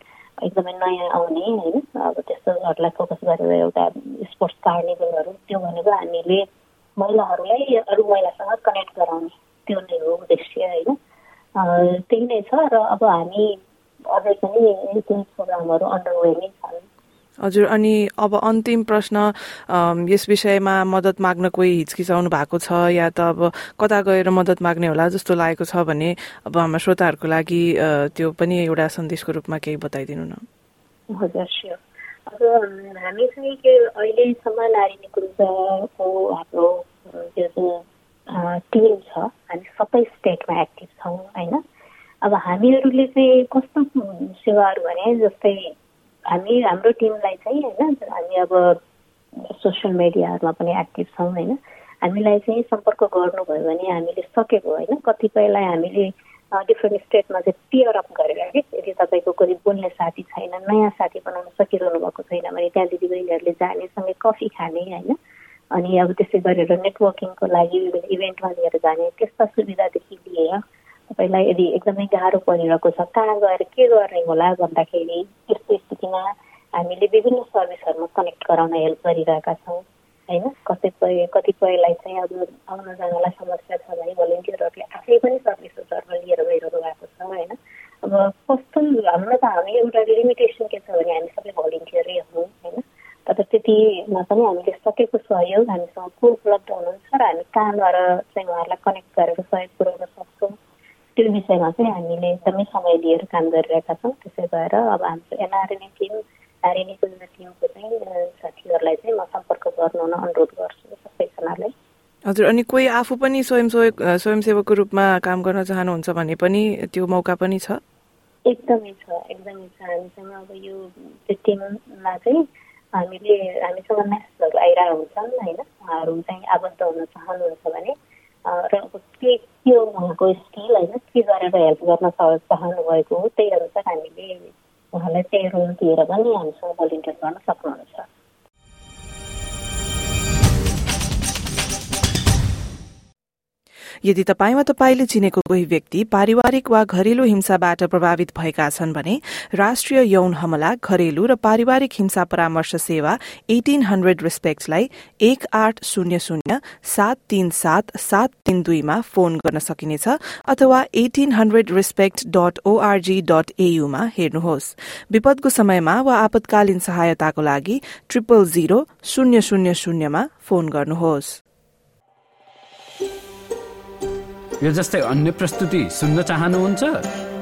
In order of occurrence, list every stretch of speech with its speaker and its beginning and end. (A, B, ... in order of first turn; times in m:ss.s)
0:00.4-0:06.4 A
0:07.0-0:10.9 A
0:11.6-0:13.6 A
0:14.1-0:16.8 A
0:17.4-0:30.4 B
0:31.1-0:41.6 A
0:42.2-0:45.7 A
0:46.3-0:48.8 A
0:49.5-1:05.2 A
1:05.7-1:40.5 A
1:41.2-1:51.7 A
1:52.3-1:57.8 B
1:58.4-2:02.4 A
2:03.0-2:07.9 A
2:08.4-2:18.1 A
2:24.0-2:51.4 B
2:54.6-2:57.0 C